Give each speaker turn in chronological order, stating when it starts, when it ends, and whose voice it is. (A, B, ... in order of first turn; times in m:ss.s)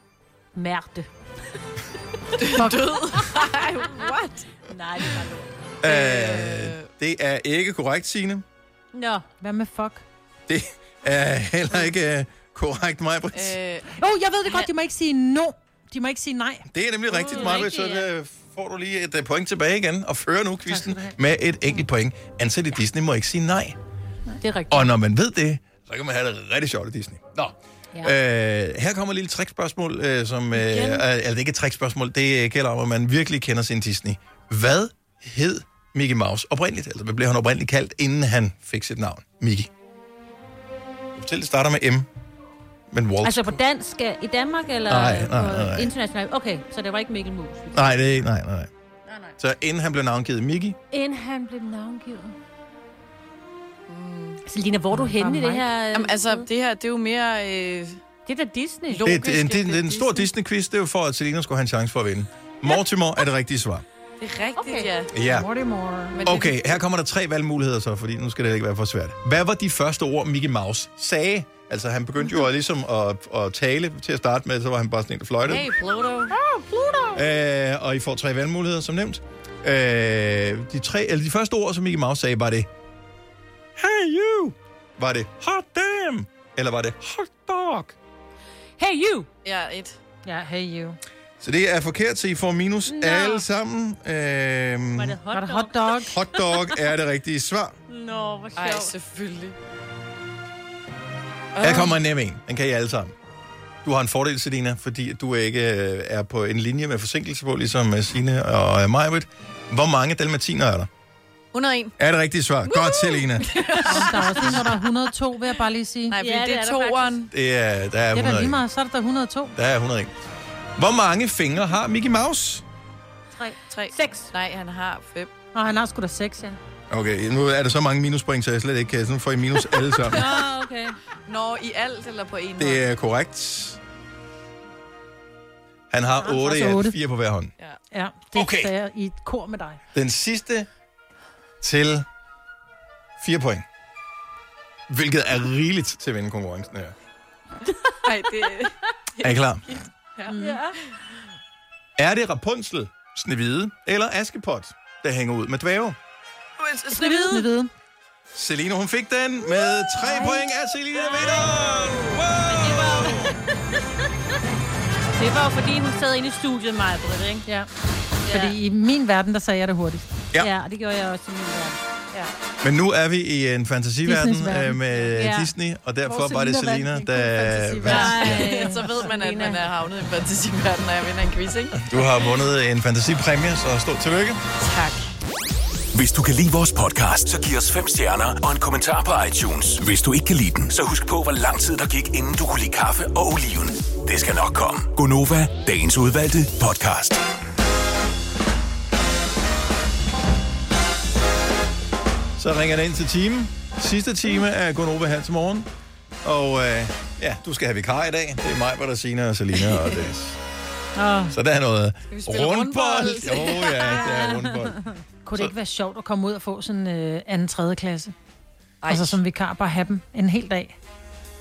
0:00.6-0:01.1 A
0:02.4-0:04.5 B
0:02.6-0:02.8 C
0:04.7-0:05.5 A
0:05.8-0:08.4 D
0:05.8-0:06.9 B
0:08.9-0:09.3 A
0:09.4-0:10.0 C
0:10.5-0:13.6 D
0:13.3-0:13.9 B
0:14.0-0:16.7 C
0:16.7-0:23.8 D
0:17.1-0:18.1 A
0:20.7-0:21.2 C
0:24.4-0:24.9 A
0:24.7-0:39.7 D
0:41.2-0:42.1 D
0:42.9-0:43.6 D
0:43.2-0:48.0 A
0:44.9-0:45.9 D
0:47.7-0:48.7 D
0:49.4-0:50.8 D
0:50.9-0:52.3 C
0:53.9-0:54.4 B
0:54.5-0:56.5 A
0:54.9-0:55.6 C
0:55.9-0:58.0 B
0:58.3-0:59.1 A
0:58.9-1:00.2 B
0:59.0-1:03.8 D
1:04.2-1:05.1 B
1:04.6-1:04.9 A
1:05.1-1:05.5 D
1:05.2-1:06.2 C
1:06.1-1:06.6 B
1:06.2-1:15.7 D
1:15.4-1:16.3 B
1:16.4-1:17.2 C
1:17.1-1:22.7 D
1:23.8-1:28.0 D
1:28.8-1:29.3 A
1:29.4-1:30.0 B
1:30.2-1:31.0 C
1:31.4-1:35.2 D
1:32.9-1:33.5 A
1:35.0-1:36.7 A
1:35.3-1:36.1 C
1:36.0-1:37.8 D
1:37.9-1:38.9 A
1:38.6-1:39.6 B
1:41.6-1:42.0 B
1:41.6-1:43.1 D
1:43.8-1:50.9 D
1:51.5-1:52.0 B
1:52.0-1:53.5 D
1:52.6-1:54.8 B
1:53.8-1:56.2 C
1:56.1-1:57.3 B
1:56.2-1:57.2 A
1:57.3-1:58.6 D
1:58.1-1:59.6 C
1:59.6-2:00.1 D
2:00.8-2:02.6 D
2:03.7-2:05.3 B
2:03.9-2:04.3 A
2:05.5-2:06.6 C
2:06.9-2:10.3 D
2:10.1-2:11.0 A
2:11.3-2:12.8 B
2:12.6-2:13.8 D
2:15.9-2:17.5 D
2:16.2-2:17.0 C
2:17.9-2:19.8 C
2:18.3-2:18.7 D
2:19.9-2:20.7 D
2:21.6-2:22.1 D
2:23.2-2:23.7 D
2:24.9-2:26.9 D
2:28.0-2:30.4 B
2:29.2-2:29.6 D
2:30.3-2:30.7 C
2:30.3-2:30.6 A
2:32.0-2:36.0 D
2:36.6-2:37.5 B
2:37.0-2:37.7 C
2:38.3-2:43.3 D
2:42.6-2:43.3 A
2:45.2-2:47.5 A
2:48.3-2:48.6 A
2:48.3-2:50.2 C
2:50.4-2:51.8 A
2:52.6-2:58.5 D
2:54.1-2:54.8 C
2:55.0-2:55.5 A
2:56.1-2:58.8 C
2:57.9-2:59.6 A
2:58.4-3:01.8 B
3:01.8-3:04.4 D
3:04.6-3:05.1 B
3:05.9-3:17.2 E
3:22.4-3:25.7 D
3:26.2-3:30.4 D
3:31.0-3:31.3 A
3:31.3-3:34.8 D
3:32.1-3:34.1 B
3:33.8-3:34.9 A
3:35.2-3:38.1 C
3:38.8-3:39.2 B
3:38.9-3:40.8 C